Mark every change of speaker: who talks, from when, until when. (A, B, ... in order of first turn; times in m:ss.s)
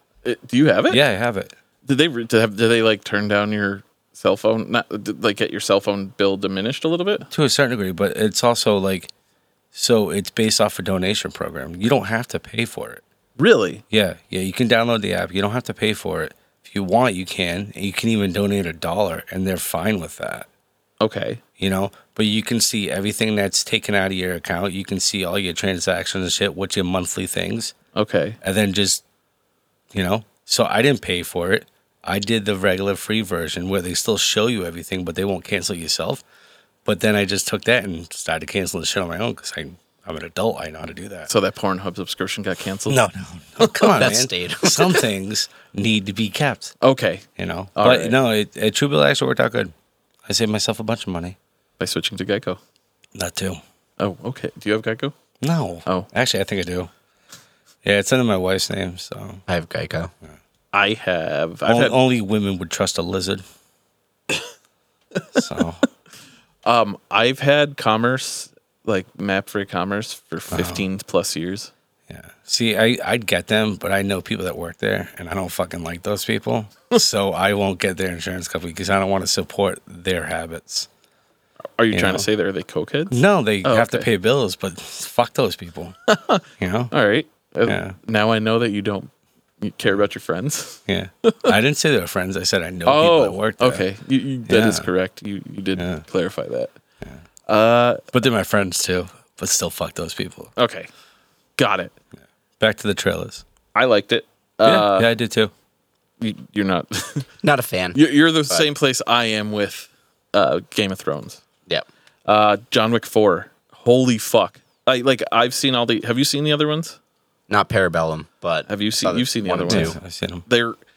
0:00.2-0:01.0 A
0:00.9-0:01.5 B
0:01.8-0:07.3 A
0:07.3-0:09.1 B
0:09.7-0:13.0 B
0:13.4-0:13.8 A
0:13.9-0:20.5 B
0:21.0-0:21.4 A
0:21.6-0:27.7 B
0:27.9-0:28.4 A
0:28.4-0:29.0 B
0:29.9-0:36.2 B
0:36.8-0:41.3 B
0:41.3-0:43.0 A
0:42.9-0:46.7 B
0:43.6-0:43.9 A
0:44.0-0:44.9 C
0:46.8-0:47.2 A
0:47.4-0:49.7 B
0:47.8-0:48.2 A
0:50.2-0:51.4 B
0:51.8-0:52.6 A
0:53.1-0:53.6 B
0:54.0-0:55.1 A
0:55.4-0:56.9 B
0:57.8-0:59.4 B
0:59.5-1:00.1 C
1:00.7-1:02.0 A
1:01.6-1:03.4 B
1:05.3-1:05.8 B
1:06.6-1:11.7 A
1:10.5-1:10.8 B
1:12.1-1:20.9 B
1:21.8-1:24.1 A
1:21.9-1:22.3 B
1:23.1-1:26.0 B
1:26.1-1:29.1 A
1:26.6-1:26.9 B
1:27.6-1:28.0 B
1:29.6-1:31.5 A
1:30.9-1:33.8 B
1:32.8-1:36.7 A
1:34.5-1:34.9 B
1:35.8-1:36.0 B
1:37.5-1:38.1 A
1:38.1-1:40.5 B
1:40.6-1:40.9 A
1:41.6-1:41.9 A
1:42.6-1:43.4 B
1:43.7-1:45.1 A
1:44.6-1:45.5 B
1:46.2-1:47.3 A
1:47.4-1:48.0 C
1:47.9-1:51.4 A
1:52.3-1:57.0 A
1:57.5-2:00.0 C
1:58.7-2:00.8 A
1:59.7-2:00.4 B